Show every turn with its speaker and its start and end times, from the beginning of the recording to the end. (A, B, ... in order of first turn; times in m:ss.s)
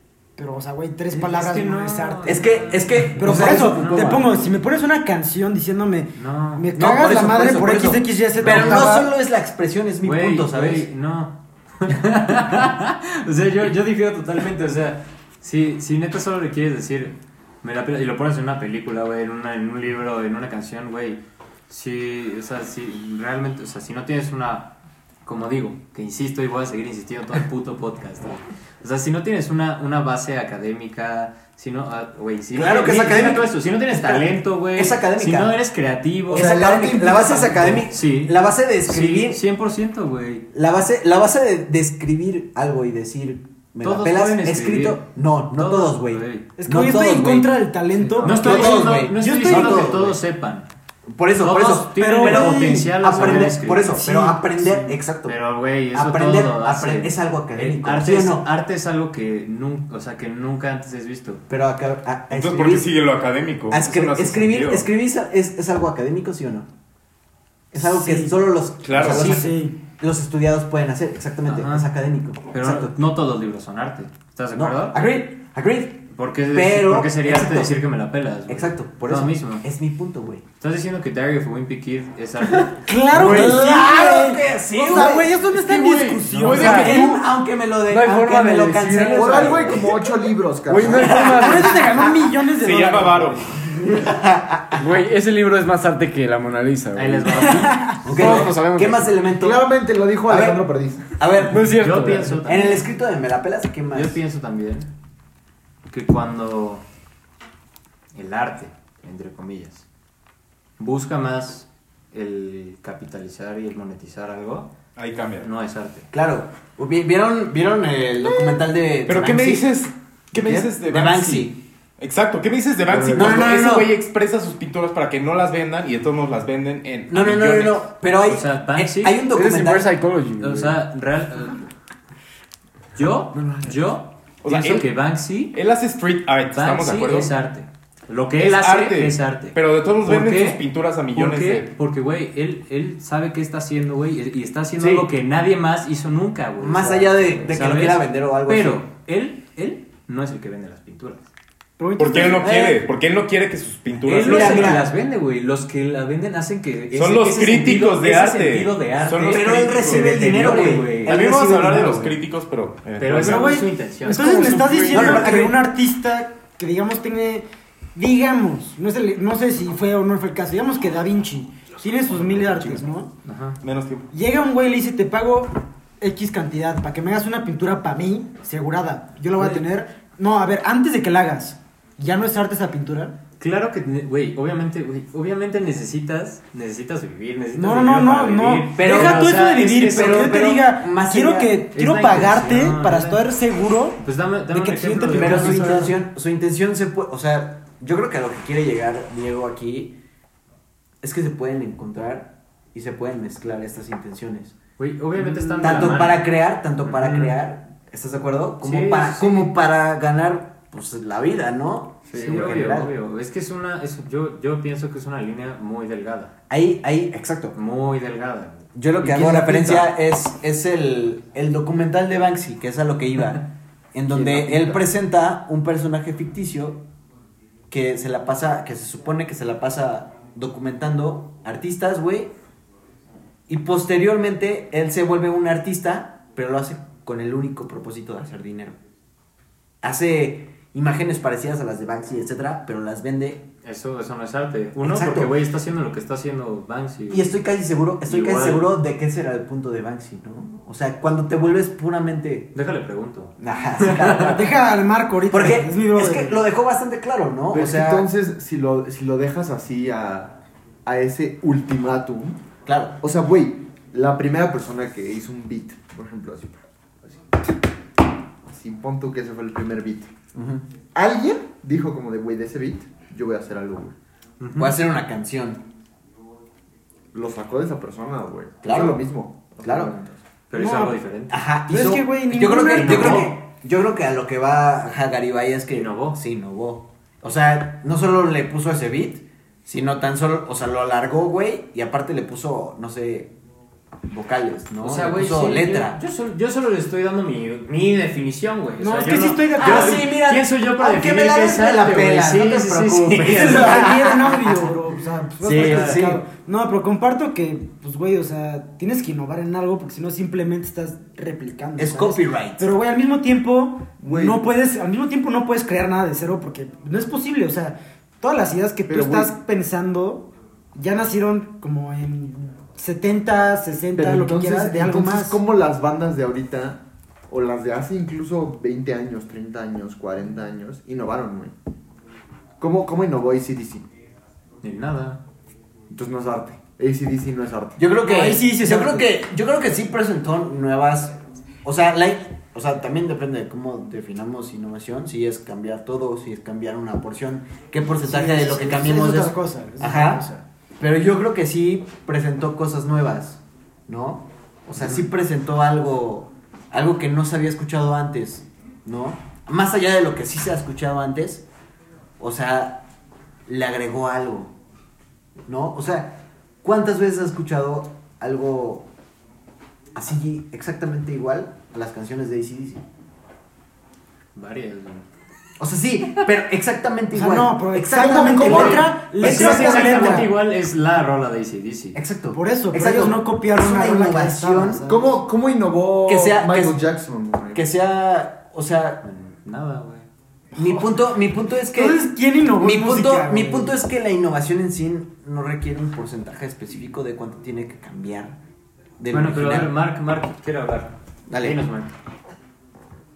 0:00.4-0:09.1 A
0:01.1-0:04.4 B
0:02.2-0:04.2 C
0:06.1-0:06.7 B
0:06.7-0:10.9 C
0:08.4-0:08.8 B
0:10.0-0:36.6 B
0:32.5-0:35.6 C
0:36.3-0:39.4 C
0:36.3-0:37.9 D
0:37.9-0:40.5 B
0:40.5-0:47.6 C
0:43.8-0:46.5 B
0:46.6-0:50.0 A
0:47.9-0:48.9 D
0:48.2-0:50.7 B
0:48.3-0:50.2 C
0:51.1-0:55.4 C
0:51.4-0:54.0 B
0:51.9-0:54.5 A
0:54.6-1:01.4 B
0:55.9-0:58.5 C
1:01.5-1:03.0 C
1:02.3-1:04.9 E
1:03.7-1:06.7 C
1:07.7-1:13.0 C
1:07.7-1:08.4 A
1:08.8-1:09.4 E
1:09.0-1:09.8 A
1:09.1-1:09.4 B
1:11.5-1:11.9 B
1:12.5-1:15.0 B
1:14.5-1:17.7 C
1:16.1-1:19.6 B
1:18.5-1:20.4 C
1:20.6-1:22.9 B
1:22.8-1:27.2 A
1:23.1-1:23.6 F
1:23.1-1:25.4 C
1:25.6-1:27.0 F
1:26.4-1:27.1 E
1:26.5-1:30.0 C
1:27.9-1:30.0 F
1:29.1-1:31.5 D
1:30.7-1:32.1 F
1:30.9-1:31.8 C
1:31.3-1:33.4 A
1:32.6-1:33.5 E
1:33.8-1:34.8 C
1:34.8-1:39.2 F
1:36.9-1:38.4 B
1:37.6-1:38.0 A
1:38.0-1:39.7 C
1:39.3-1:41.1 D
1:40.2-1:40.6 C
1:41.2-1:41.8 C
1:41.4-1:42.4 F
1:41.6-1:42.9 B
1:42.4-1:44.2 C
1:43.9-1:44.9 B
1:45.9-1:46.8 B
1:48.1-1:49.8 B
1:50.8-1:54.7 B
1:55.0-1:55.5 E
1:55.4-1:56.1 B
1:56.1-1:59.8 C
1:59.1-2:07.8 E
2:00.4-2:01.6 C
2:02.9-2:03.4 F
2:03.1-2:03.9 C
2:07.1-2:09.9 C
2:08.2-2:09.2 B
2:09.3-2:10.8 F
2:10.4-2:11.7 B
2:12.9-2:15.6 B
2:13.4-2:13.7 C
2:14.4-2:14.9 E
2:15.5-2:17.3 E
2:16.5-2:31.3 B
2:18.4-2:21.7 E
2:24.8-2:25.1 C
2:26.6-2:28.8 C
2:31.8-2:32.5 A
2:32.0-2:34.8 E
2:32.4-2:32.8 C
2:34.0-2:41.3 B
2:34.1-2:34.9 C
2:36.9-2:45.4 E
2:39.2-2:42.1 C
2:43.0-2:45.1 B
2:43.2-2:53.1 A
2:44.9-2:45.5 C
2:52.0-2:52.8 E
2:53.2-2:53.6 B
2:53.6-2:54.1 E
2:54.1-3:03.2 A
3:03.4-3:10.3 B
3:07.6-3:15.9 A
3:08.8-3:11.6 C
3:11.7-3:13.2 B
3:14.0-3:16.0 B
3:15.1-3:20.0 C
3:21.0-3:24.6 C
3:24.8-3:26.3 B
3:25.1-3:32.9 C
3:26.8-3:27.4 B
3:28.6-3:29.5 B
3:32.1-3:36.3 B
3:36.5-3:37.6 C
3:37.5-3:39.9 B
3:38.7-3:46.8 C
3:44.1-3:44.8 D
3:47.7-3:52.3 C
3:53.5-3:58.8 C
3:59.8-4:03.5 C
4:03.6-4:07.4 B
4:04.8-4:05.4 C
4:07.1-4:12.5 C
4:08.0-4:08.7 B
4:12.5-4:14.4 B
4:13.4-4:14.5 C
4:14.2-4:16.4 A
4:15.3-4:18.1 C
4:17.5-4:22.4 D
4:22.6-4:23.0 C
4:23.0-4:27.2 D
4:28.5-4:30.1 D
4:30.3-4:30.6 C
4:30.9-4:34.0 D
4:34.4-4:34.8 B
4:34.6-4:35.6 C
4:37.1-4:40.1 D
4:38.6-4:39.0 C
4:39.6-4:39.9 C
4:40.0-4:41.4 B
4:40.5-4:41.0 A
4:41.3-4:53.3 C
4:41.7-4:43.3 A
4:42.7-4:43.4 B
4:45.7-4:46.2 B
4:54.1-4:56.0 C
4:54.8-5:04.0 B
4:58.8-5:00.1 A
4:59.6-5:04.7 C
5:03.2-5:25.4 A
5:05.4-5:06.2 C
5:05.5-5:06.0 B
5:11.8-5:12.7 C
5:14.0-5:14.4 D
5:18.9-5:19.3 D
5:23.9-5:31.5 D
5:32.6-5:33.9 D
5:34.6-5:35.2 B
5:35.9-5:37.8 D
5:37.8-5:50.2 C
5:38.0-5:39.1 A
5:48.0-5:50.4 A
5:50.8-6:01.4 C
5:54.8-5:55.0 B
6:02.2-6:02.8 C
6:03.5-6:04.5 C
6:05.5-6:08.9 C
6:09.9-6:12.8 C
6:14.3-6:15.0 B
6:15.6-6:20.2 C
6:17.1-6:20.3 A
6:18.0-6:18.9 D
6:18.4-6:22.0 B
6:19.5-6:19.8 D
6:21.9-6:24.9 C
6:22.3-6:25.1 A
6:24.8-6:27.7 D
6:26.0-6:26.8 C
6:27.5-6:29.0 C
6:29.0-6:30.1 B
6:30.5-6:32.0 C
6:31.7-6:33.8 A
6:32.6-6:38.4 C
6:39.0-6:39.7 C
6:39.1-6:41.9 B
6:41.3-6:41.6 C